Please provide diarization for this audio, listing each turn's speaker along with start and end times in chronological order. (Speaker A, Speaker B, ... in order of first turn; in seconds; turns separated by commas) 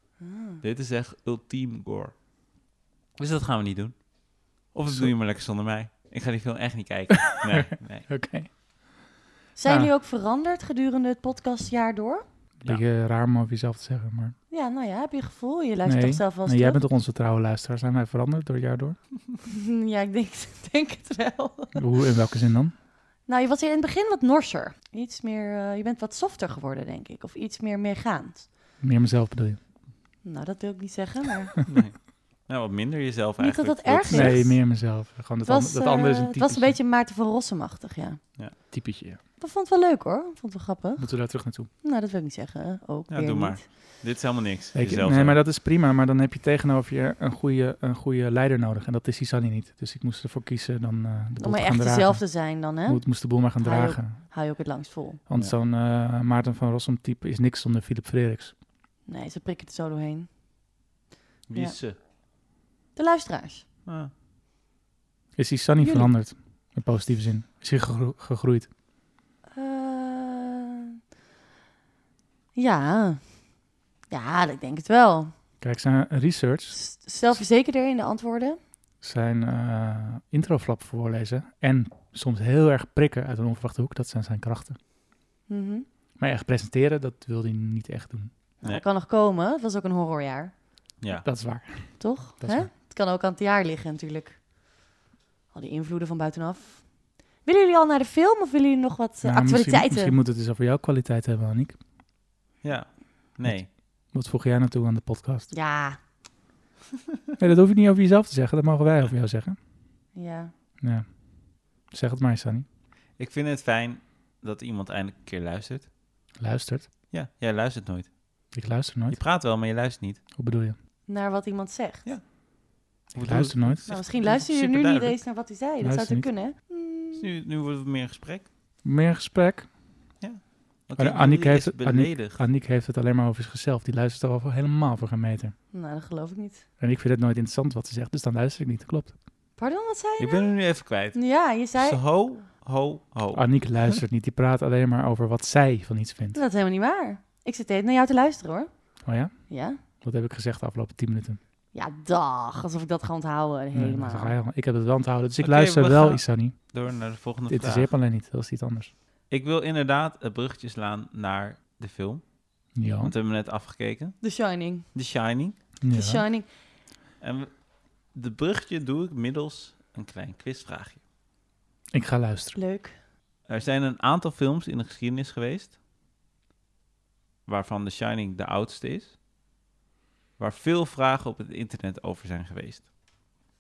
Speaker A: 0.2-0.6, Speaker B: 0.6-2.1, Speaker B: 3.2-8.1, Speaker C: 7.3-8.5, Speaker A: 9.6-12.2, Speaker C: 9.7-9.9, Speaker C: 12.6-14.3, Speaker A: 14.5-16.8, Speaker C: 15.8-19.0, Speaker A: 19.4-21.8, Speaker C: 21.8-22.7, Speaker A: 23.3-28.5, Speaker C: 28.8-29.6, Speaker A: 30.2-31.6, Speaker B: 31.7-34.5, Speaker A: 33.4-34.8, Speaker C: 34.1-36.8, Speaker A: 35.5-38.2, Speaker C: 38.7-39.2, Speaker A: 39.4-43.6, Speaker C: 41.0-41.7, Speaker B: 43.1-45.4, Speaker C: 44.7-54.2, Speaker A: 51.4-55.2, Speaker C: 55.3-58.5, Speaker A: 59.1-60.3, Speaker B: 61.5-62.0, Speaker A: 63.0-63.7, Speaker B: 63.9-64.1, Speaker C: 65.4-68.7, Speaker A: 65.8-66.1, Speaker A: 69.5-70.9, Speaker A: 72.5-73.4, Speaker A: 74.1-75.3, Speaker C: 75.6-76.8, Speaker A: 76.7-78.6, Speaker C: 79.0-84.8, Speaker A: 85.5-85.9, Speaker C: 86.2-88.3, Speaker A: 88.6-90.5, Speaker B: 91.0-91.3, Speaker C: 91.2-92.7, Speaker A: 92.0-94.4, Speaker A: 95.5-100.2, Speaker C: 99.2-101.8, Speaker B: 102.6-103.7, Speaker C: 103.5-105.5, Speaker A: 105.5-106.0, Speaker C: 107.4-109.6, Speaker A: 110.1-110.5, Speaker C: 110.8-112.7, Speaker B: 113.2-115.9, Speaker C: 116.4-116.9, Speaker B: 117.1-118.1, Speaker C: 118.5-119.2, Speaker B: 119.1-120.2, Speaker C: 120.3-120.8, Speaker A: 121.1-122.1, Speaker B: 122.0-125.2, Speaker C: 123.1-123.9, Speaker A: 123.9-127.3, Speaker C: 125.8-126.3, Speaker B: 127.2-128.5, Speaker C: 128.8-129.7, Speaker B: 130.2-132.4, Speaker C: 131.0-135.6, Speaker A: 135.7-136.7, Speaker C: 136.8-139.2, Speaker A: 139.6-140.5, Speaker B: 140.2-143.7, Speaker A: 141.1-142.0, Speaker C: 143.3-146.4, Speaker A: 146.3-148.7, Speaker C: 149.1-151.4, Speaker A: 149.5-149.8, Speaker A: 151.7-154.4, Speaker C: 153.7-156.6, Speaker B: 155.4-157.9, Speaker C: 157.5-158.9, Speaker B: 159.3-162.2, Speaker C: 162.7-163.1, Speaker B: 163.0-164.2, Speaker A: 164.2-164.9, Speaker B: 164.9-165.6, Speaker C: 165.8-166.2, Speaker A: 165.9-166.5, Speaker B: 167.2-171.0, Speaker C: 171.9-172.6, Speaker A: 172.6-173.0, Speaker B: 173.5-175.8, Speaker B: 177.5-179.2, Speaker B: 180.4-182.9